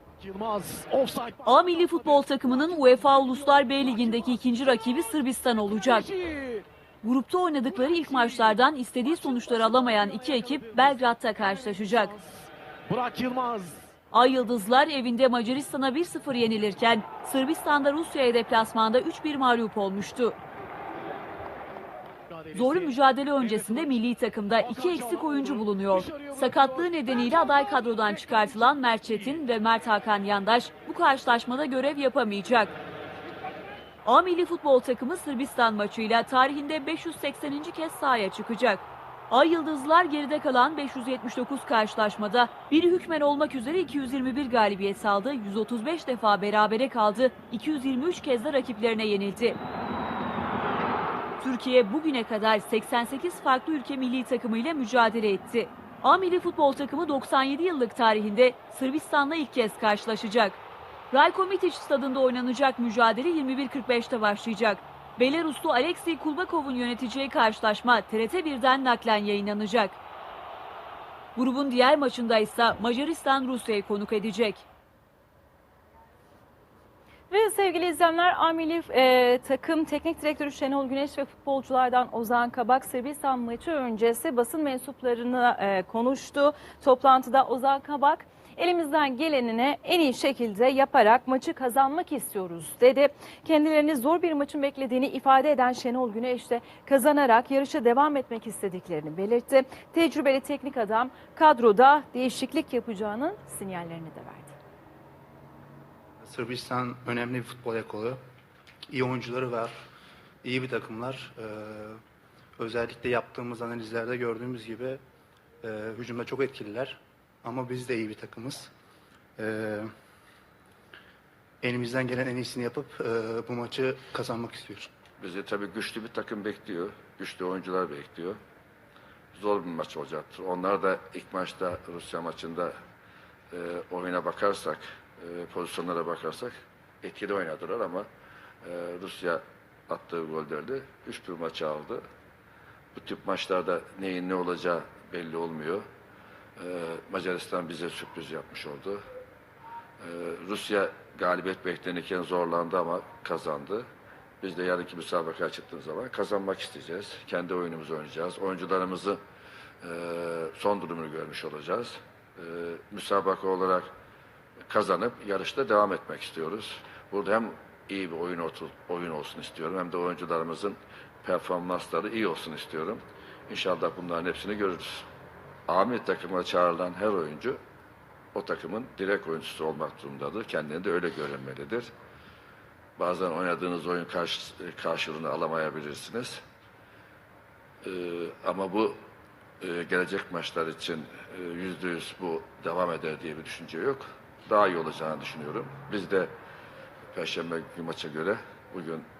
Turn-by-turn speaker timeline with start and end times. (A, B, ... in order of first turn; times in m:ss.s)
0:00.2-0:06.6 A
0:01.5-0:06.1 B
0:07.0-0:12.1 B
0:07.6-0:13.9 A
0:14.1-0:20.4 B
0:22.3-0:24.0 A
0:22.5-0:32.8 B
0:24.5-0:29.4 A
0:34.0-0:49.6 B
0:51.4-1:00.6 B
1:01.1-1:10.0 B
1:11.4-1:14.6 B
1:17.3-1:44.5 C
1:46.2-1:48.2 D
1:48.9-1:49.7 D
1:50.4-1:52.0 D
1:52.6-1:55.0 D
1:55.6-1:58.7 D
1:59.4-1:59.9 D
2:01.6-2:04.9 D
2:05.2-2:08.4 E
2:09.3-2:12.7 E
2:13.5-2:18.1 E
2:18.6-2:22.0 E
2:22.9-2:25.8 E
2:26.6-2:29.0 E
2:30.0-2:33.8 E
2:34.4-2:39.2 E
2:39.8-2:43.9 E
2:44.7-2:55.1 E
2:55.7-2:57.6 E
2:58.3-3:01.9 E
3:03.0-3:06.4 E
3:07.8-3:09.0 E
3:09.6-3:16.3 E
3:17.1-3:19.1 E